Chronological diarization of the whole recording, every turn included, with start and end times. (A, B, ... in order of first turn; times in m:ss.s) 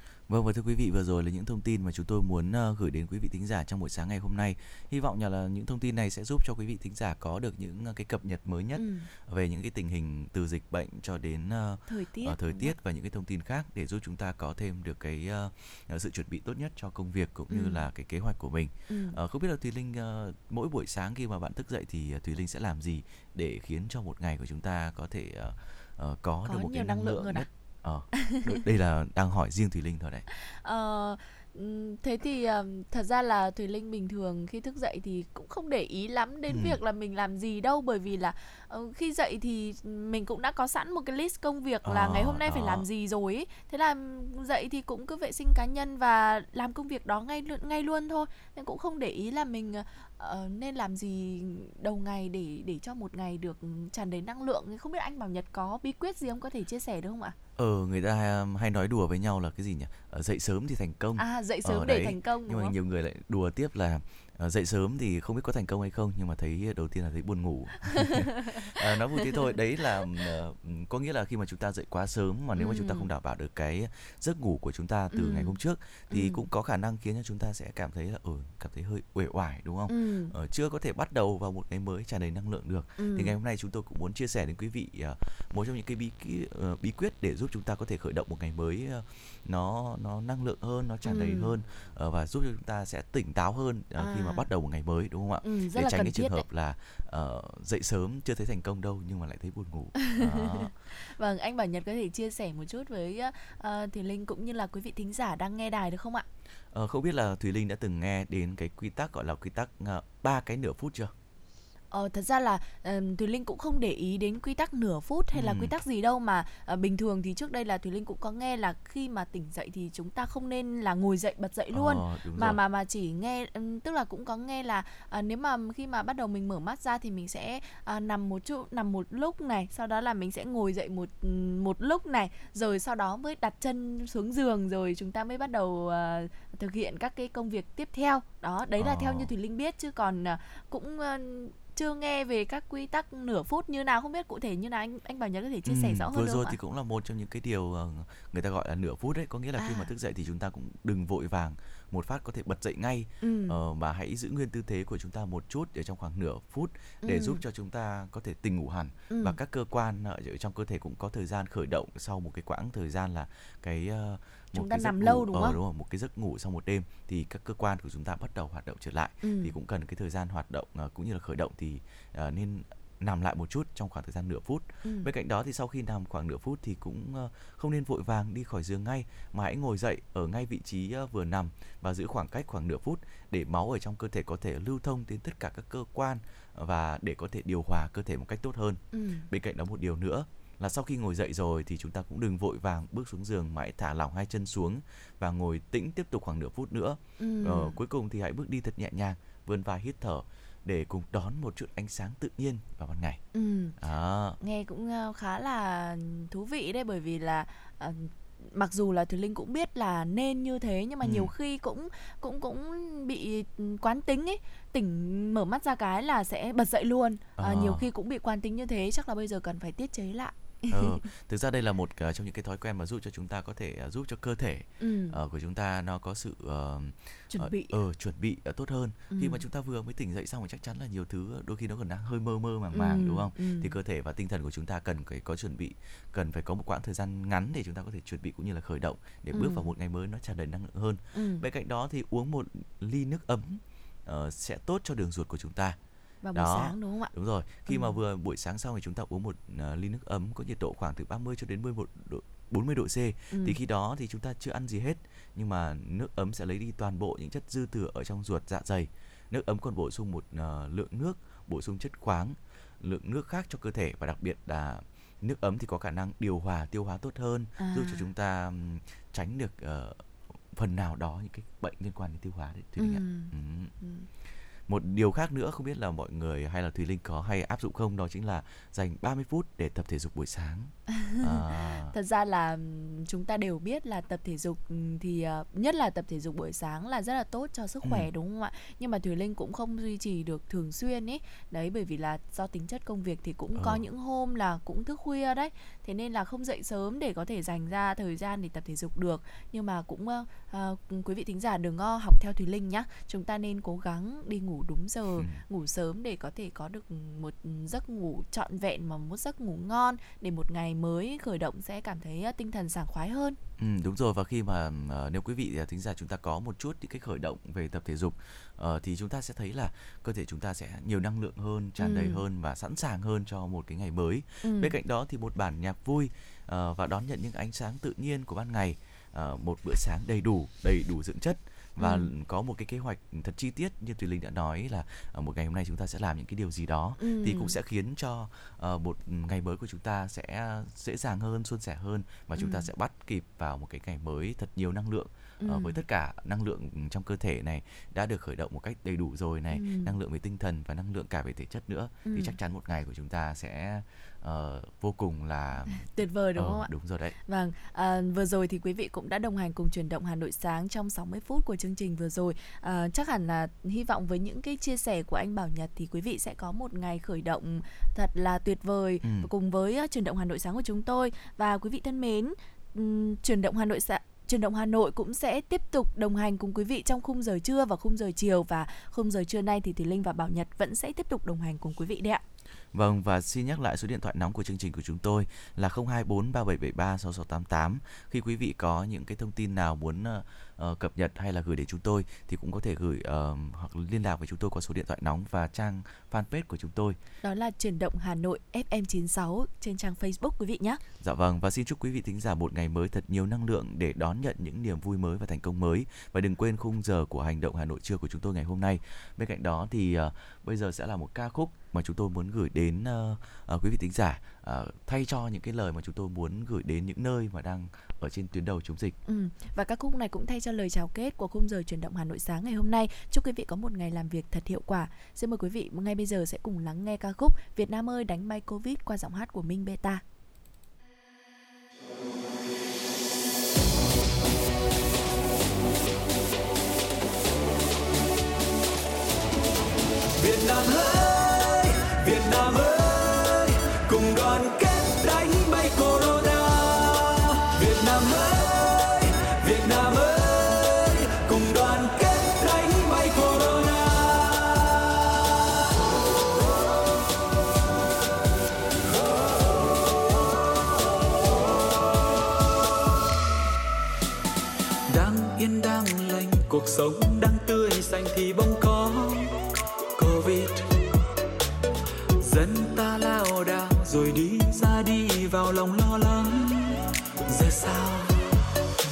0:00.3-0:30.2 A
0:08.8-0:09.1 B
0:11.9-0:12.7 B
0:17.5-0:17.8 B
0:18.9-0:19.2 B
0:26.4-0:27.5 B
0:28.2-0:28.4 B
0:30.3-0:57.4 B
0:36.5-0:36.8 A
0:41.8-0:42.8 A
0:57.6-1:40.7 A
1:01.2-1:02.7 B
1:08.2-1:08.9 B
1:10.0-1:10.2 B
1:12.6-1:13.1 B
1:15.1-1:15.6 B
1:16.1-1:16.4 B
1:19.9-1:20.3 B
1:23.0-1:23.4 B
1:31.0-1:31.5 B
1:34.0-1:34.4 B
1:35.4-1:36.4 B
1:40.0-1:46.2 B
1:46.7-1:51.1 A
1:51.9-2:26.6 B
1:55.3-1:55.7 A
2:01.7-2:02.6 A
2:18.8-2:19.3 A
2:25.6-3:23.2 A
2:29.6-2:29.9 B
2:33.2-2:33.6 B
2:37.0-2:37.4 B
2:39.1-2:39.4 B
2:44.5-2:45.6 B
2:49.2-2:49.5 B
2:54.8-2:55.1 B
3:08.9-3:09.3 B
3:17.2-3:17.8 B
3:23.3-3:23.8 B
3:23.8-3:24.4 A
3:24.4-3:41.0 B
3:31.0-3:31.3 A
3:37.4-3:37.9 A
3:40.7-4:05.8 A
3:44.8-3:45.2 B
3:47.3-3:47.8 B
3:49.1-3:49.4 B
3:52.7-3:53.7 B
3:59.3-3:59.7 B
4:01.1-4:01.4 B
4:06.2-4:07.1 B
4:06.3-4:30.0 A
4:07.7-4:08.0 B
4:13.3-4:13.6 B
4:27.6-4:28.0 B
4:30.5-4:33.7 A
4:32.8-4:34.1 B
4:34.7-4:41.9 A
4:40.9-5:13.4 B
4:47.8-4:48.1 A
4:53.5-4:53.8 A
5:05.2-5:05.4 A
5:13.6-5:57.2 A
5:21.8-5:22.2 B
5:24.4-5:24.7 B
5:31.8-5:32.1 B
5:37.0-5:37.6 B
5:42.4-5:42.7 B
5:45.4-5:45.8 B
5:49.5-5:49.9 B
5:52.0-5:52.4 B
5:55.7-5:56.7 B
5:57.3-6:22.2 B
6:09.0-6:09.3 A
6:22.7-6:37.0 A
6:37.2-6:40.8 B
6:41.0-6:59.0 A
6:59.1-7:10.0 B
7:20.1-7:34.8 C
7:44.9-7:49.4 C
7:49.9-7:50.9 C
7:52.2-7:58.2 C